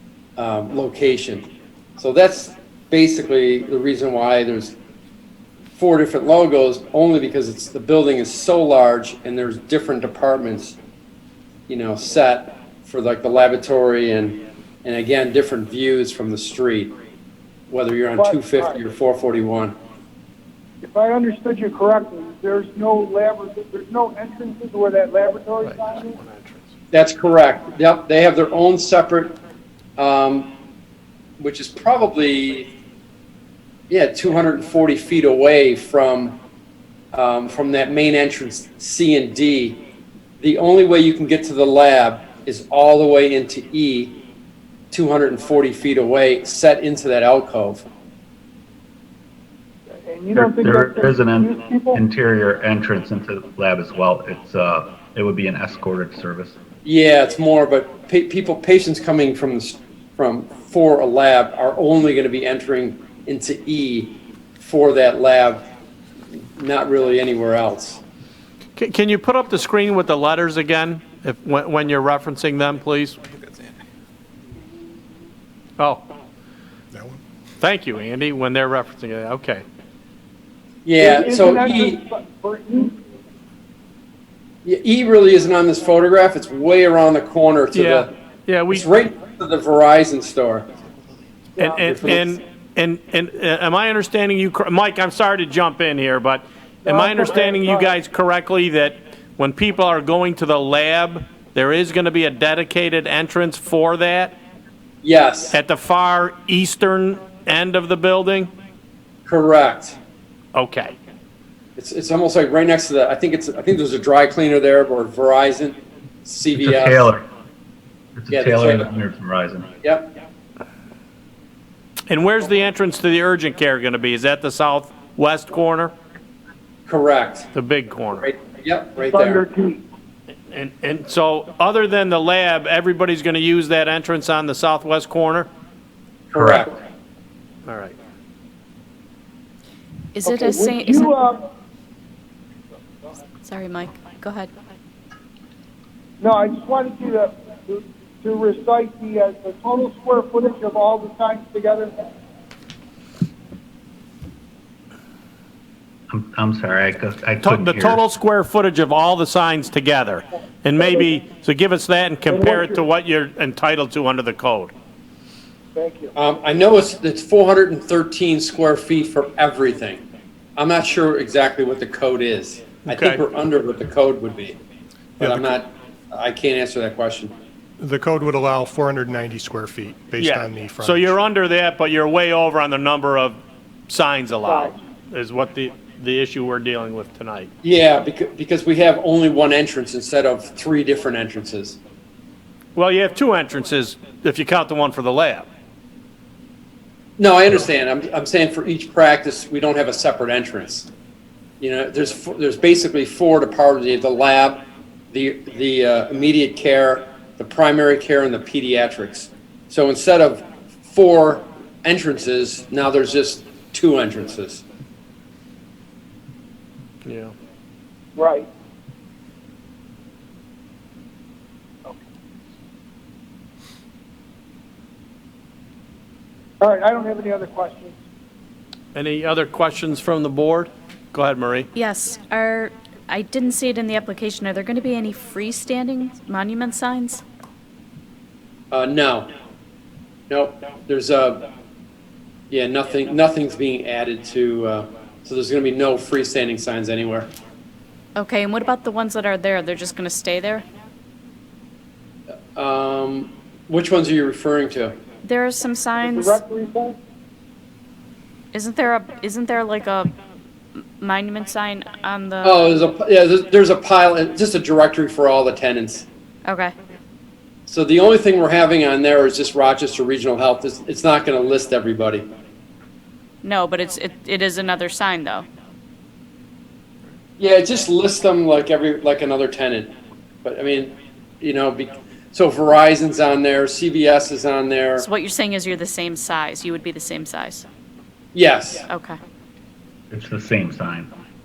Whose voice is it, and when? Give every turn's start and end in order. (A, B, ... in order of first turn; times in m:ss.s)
0:00.4-0:04.8 A
0:05.8-0:10.8 A
0:11.7-0:16.9 A
0:17.7-0:19.8 A
0:18.2-0:18.8 B
0:20.8-0:26.2 B
0:25.6-0:26.6 C
0:26.9-0:29.4 A
0:30.0-0:30.5 A
0:31.4-0:32.7 A
0:33.9-0:36.4 A
0:37.1-0:39.8 A
0:40.4-0:44.2 A
0:44.9-0:47.9 A
0:50.1-0:52.0 B
0:50.4-0:56.5 D
0:56.8-1:05.7 A
1:06.3-1:08.0 A
1:08.8-1:13.2 C
1:15.8-1:16.0 C
1:16.9-1:17.2 E
1:17.6-1:19.6 C
1:20.8-1:22.0 A
1:21.0-1:23.0 B
1:24.6-1:28.1 A
1:27.7-1:28.9 C
1:28.7-1:30.7 A
1:31.6-1:44.4 C
1:31.6-1:32.2 B
1:31.8-1:32.3 A
1:36.9-1:37.9 B
1:45.0-1:45.6 A
1:45.5-1:48.5 C
1:49.3-1:50.0 A
1:50.6-1:51.0 C
1:51.8-1:57.1 A
1:56.6-1:57.2 D
1:58.2-1:59.7 D
1:58.3-1:58.9 A
2:02.1-2:05.9 C
2:06.9-2:07.5 A
2:07.5-2:08.3 C
2:08.2-2:09.4 A
2:09.1-2:09.8 B
2:10.5-2:15.5 C
2:16.3-2:16.8 A
2:16.4-2:16.7 D
2:17.7-2:18.0 C
2:20.2-2:21.1 F
2:20.2-2:21.4 B
2:23.4-2:24.5 F
2:26.2-2:31.9 B
2:36.1-2:38.0 D
2:37.4-2:44.7 C
2:42.3-2:42.8 B
2:45.8-2:46.1 B
2:46.2-2:50.0 A
2:50.6-2:54.6 A
2:52.9-2:53.2 C
2:55.2-2:55.6 E
2:55.2-2:57.3 A
2:57.8-3:01.2 E
3:00.2-3:07.5 C
3:07.6-3:11.8 A
3:12.8-3:15.5 C
3:17.2-3:20.9 A
3:21.6-3:34.6 A
3:37.0-3:37.3 C
3:38.2-3:38.5 B
3:46.6-3:48.0 B
3:48.9-3:51.7 C
3:51.8-3:57.2 F
3:58.7-3:59.3 A
4:00.3-4:01.5 A
4:02.5-4:07.3 A
4:08.2-4:10.7 F
4:12.6-4:15.0 A
4:15.2-4:16.4 F
4:16.0-4:17.0 B
4:18.5-4:20.1 F
4:20.8-4:22.6 F
4:22.4-4:26.1 A
4:26.5-4:26.7 F
4:27.7-4:32.3 A
4:33.4-4:35.5 F
4:37.4-4:39.9 A
4:40.4-4:45.1 A
4:45.0-4:47.6 F
4:48.3-4:48.9 A
4:48.9-4:49.2 F
4:50.1-4:51.1 D